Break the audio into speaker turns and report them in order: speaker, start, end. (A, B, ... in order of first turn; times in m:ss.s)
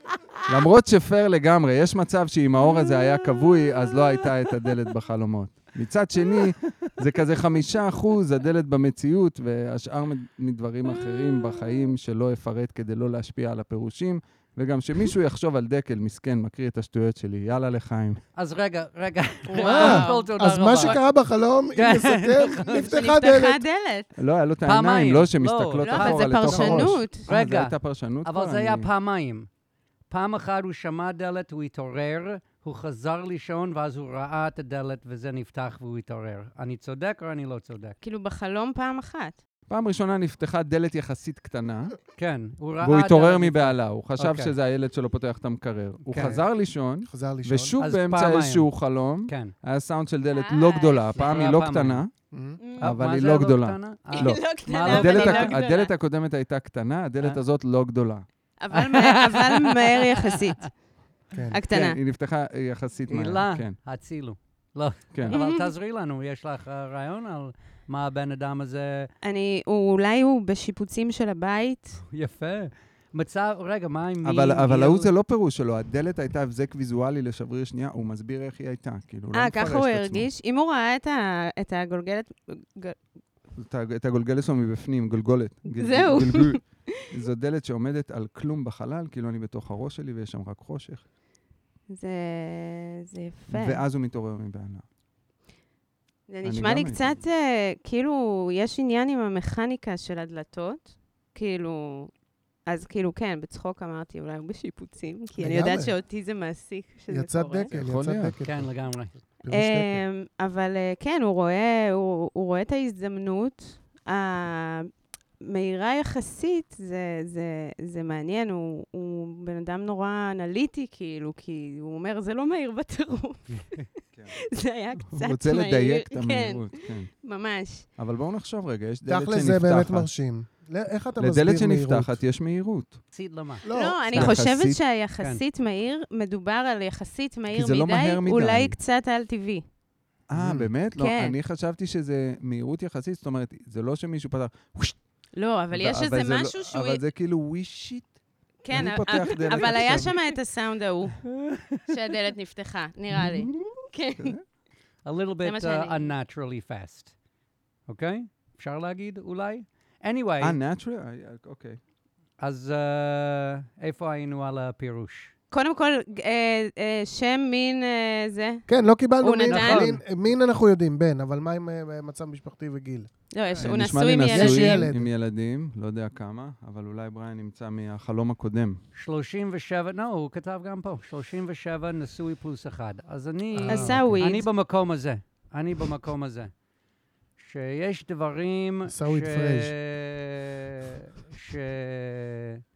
0:00.5-0:18.2 A
0:18.4-0:21.0 B
0:19.5-0:20.3 C
0:19.6-0:23.6 D
0:21.8-0:22.9 B
0:22.7-0:24.1 C
0:24.2-0:28.9 A
0:24.6-0:29.5 B
0:25.8-0:27.2 C
0:30.1-0:38.0 B
0:38.0-0:39.4 C
0:39.7-0:41.9 A
0:42.2-0:44.5 B
0:42.8-0:52.1 A
0:46.1-0:46.4 B
0:47.0-0:47.8 D
0:47.8-0:48.7 B
0:49.2-0:49.5 B
0:50.3-0:51.4 C
0:51.1-0:52.0 B
0:52.3-0:52.6 D
0:52.6-0:52.9 C
0:52.8-0:55.6 B
0:52.8-0:58.2 A
0:54.1-0:55.9 C
0:58.6-1:00.8 C
0:58.7-1:00.5 B
1:01.3-1:01.6 D
1:01.5-1:02.0 C
1:01.7-1:03.8 A
1:03.1-1:09.1 B
1:05.1-1:05.4 A
1:05.3-1:05.6 C
1:09.2-1:12.0 C
1:12.1-1:15.1 B
1:14.2-1:20.3 A
1:19.3-1:23.0 C
1:23.6-1:31.0 A
1:25.8-1:26.8 C
1:31.9-1:33.8 C
1:33.5-1:34.8 A
1:36.3-1:42.1 C
1:36.4-1:37.2 A
1:42.6-1:47.7 C
1:45.4-1:45.9 D
1:47.1-1:48.7 D
1:47.7-1:48.4 A
1:48.4-1:49.1 B
1:49.4-1:50.0 D
1:49.5-2:03.9 C
2:04.1-2:04.4 A
2:04.5-2:07.8 C
2:05.1-2:07.1 A
2:08.0-2:10.1 A
2:09.1-2:12.2 D
2:11.2-2:13.0 A
2:13.1-2:13.6 B
2:13.6-2:14.3 D
2:13.7-2:19.6 C
2:14.1-2:14.8 A
2:17.5-2:18.8 A
2:20.3-2:25.0 A
2:20.4-2:20.7 D
2:21.0-2:21.3 C
2:25.3-2:27.0 C
2:25.7-2:28.2 A
2:28.6-2:31.2 C
2:28.7-2:30.2 A
2:31.9-2:34.4 C
2:35.0-2:37.1 B
2:35.4-2:36.1 C
2:37.9-2:40.6 B
2:40.4-2:41.8 A
2:42.4-2:45.3 B
2:45.5-2:48.6 C
2:48.7-2:53.7 D
2:49.2-2:49.9 C
2:49.5-2:50.0 B
2:53.3-2:54.8 C
2:53.6-2:58.8 A
2:54.2-2:55.1 D
2:58.9-3:06.5 B
3:03.5-3:04.2 D
3:03.7-3:04.5 C
3:07.4-3:12.6 B
3:08.9-3:09.7 D